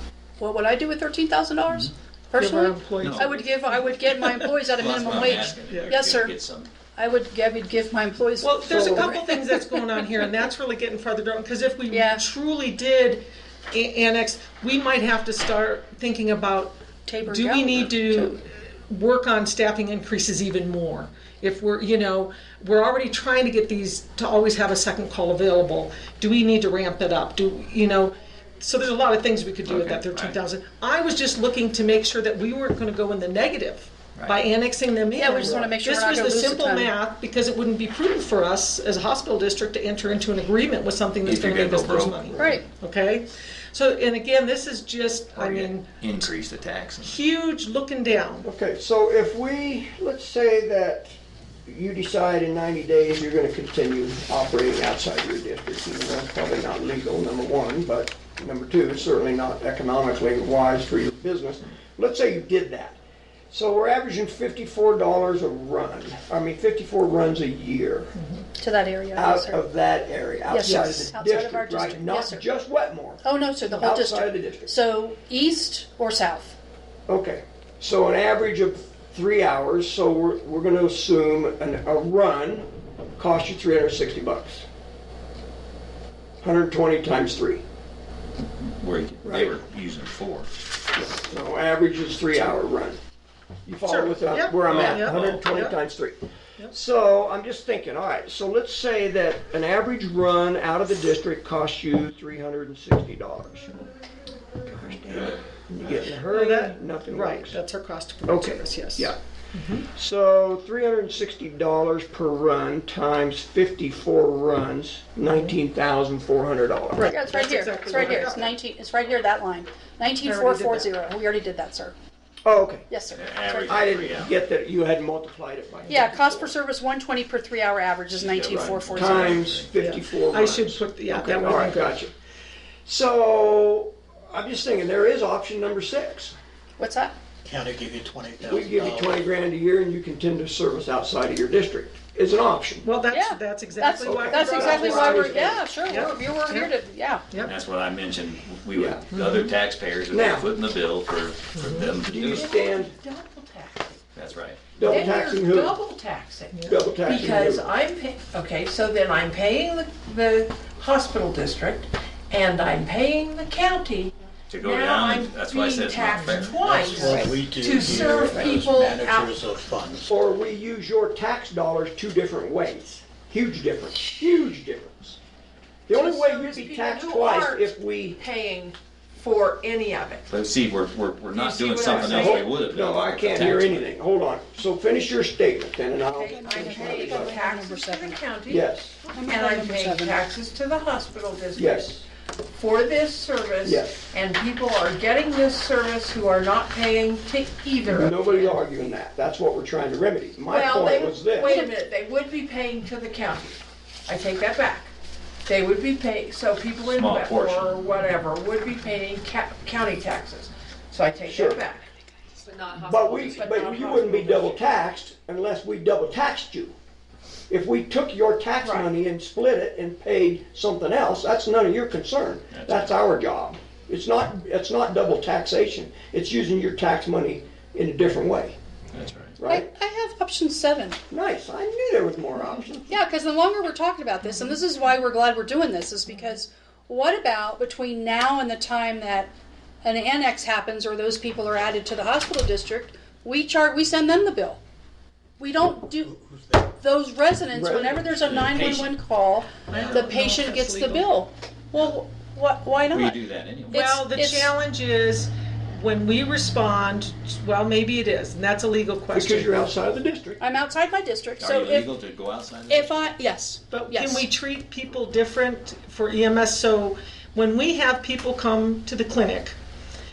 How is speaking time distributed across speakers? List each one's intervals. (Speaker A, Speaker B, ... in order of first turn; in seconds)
Speaker A: 0.4-6.3, 7.0-10.4, 11.9-12.2, 17.1-18.4, 35.1-36.9, 42.4-42.6, 68.6-69.6, 70.5-72.5, 73.2-76.5, 117.1-121.9, 122.9-124.0, 125.9-129.5, 136.8-137.1, 143.1-147.2, 186.1-188.2, 189.1-190.2, 201.3-201.8, 229.5-231.0, 232.9-239.3, 239.8-244.6, 245.4-253.2, 253.7-254.5, 260.4-261.9, 262.7-264.3
Speaker B: 2.3-4.5, 5.1-5.9, 8.4-45.9, 47.0-48.5, 68.2-68.4, 70.6-71.1, 93.8-95.8, 106.2-109.8, 117.0-118.6, 120.2-120.9, 129.7-132.0, 142.8-146.7, 149.2-149.5, 151.6-151.9, 156.5-156.9, 166.1-166.6, 249.7-251.1, 253.7-259.7, 263.7-269.6
Speaker C: 3.0-3.3, 4.7-6.7, 29.6-30.4, 34.1-34.4, 41.2-42.6, 45.3-47.2, 88.6-90.5, 94.7-95.2, 123.1-124.3, 128.1-129.7, 147.4-152.5, 154.1-154.8, 164.5-166.6, 180.3-183.9, 206.8-207.8, 222.5-222.9, 228.9-229.4, 248.2-248.9, 252.9-253.9, 261.4-263.1
Speaker D: 8.7-9.1, 35.3-35.7, 48.4-51.1, 51.6-63.0, 63.5-68.1, 69.1-74.7, 77.1-82.7, 83.2-84.6, 86.4-87.6, 89.2-89.5, 90.9-93.0, 93.7-103.9, 104.6-107.6, 108.3-109.2, 109.9-117.2, 117.9-118.2, 122.4-122.9, 123.7-126.5, 128.6-132.1, 132.8-136.3, 138.4-142.9, 144.0-145.7, 148.7-149.2, 150.1-150.5, 151.8-152.9, 154.8-155.8, 156.7-157.7, 167.1-167.4, 170.1-175.2, 175.9-178.2, 181.9-187.3, 188.5-188.9, 191.5-192.0, 193.6-194.0, 197.9-201.5, 211.2-211.6, 212.8-216.7, 217.5-228.6, 229.4-229.7, 231.1-232.9, 247.5-248.1, 259.1-260.4
Speaker E: 137.4-139.2, 166.5-170.1, 246.3-246.6
Speaker F: 152.2-154.0, 154.8-169.3, 175.9-180.3, 181.3-182.5, 186.1-191.9, 192.5-198.6, 200.5-204.9, 205.4-211.9, 212.6-214.6, 218.6-218.9